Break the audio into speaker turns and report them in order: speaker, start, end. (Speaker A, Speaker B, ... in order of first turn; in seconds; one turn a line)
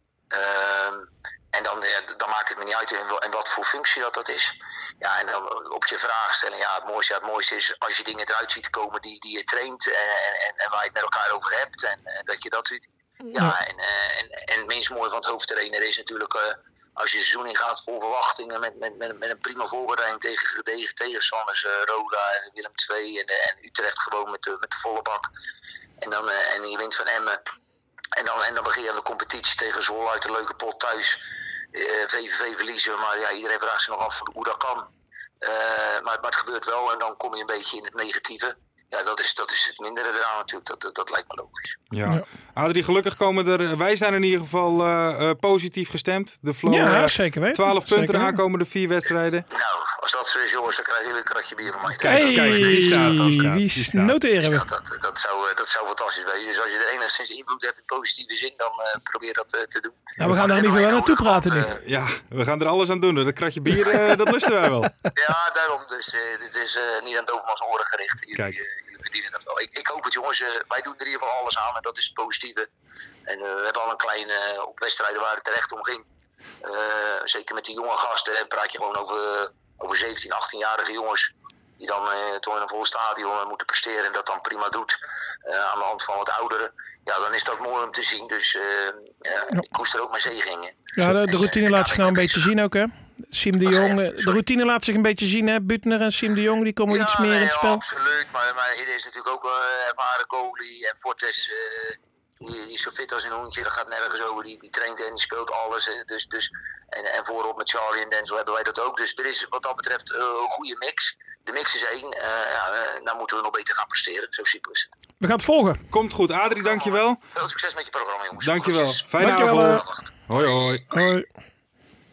Speaker A: 0.3-25.3
Speaker A: 26.0-27.4
Speaker A: 28.1-31.2
Speaker A: 31.7-34.9
Speaker A: 35.4-41.8
Speaker B: 41.9-49.5
Speaker C: 46.6-48.4
Speaker A: 49.5-53.2
Speaker B: 52.0-54.1
Speaker C: 52.0-54.6
Speaker A: 54.4-61.8
Speaker C: 60.2-61.7
Speaker B: 61.8-65.0
Speaker A: 65.1-72.7
Speaker A: 73.2-76.0
Speaker A: 76.6-92.5
Speaker C: 91.0-97.8
Speaker A: 93.6-94.4
Speaker A: 96.9-114.9
Speaker C: 115.2-115.8
Speaker B: 115.9-117.2
Speaker A: 116.6-120.8
Speaker B: 118.4-120.8
Speaker C: 119.2-119.8
Speaker C: 120.9-121.2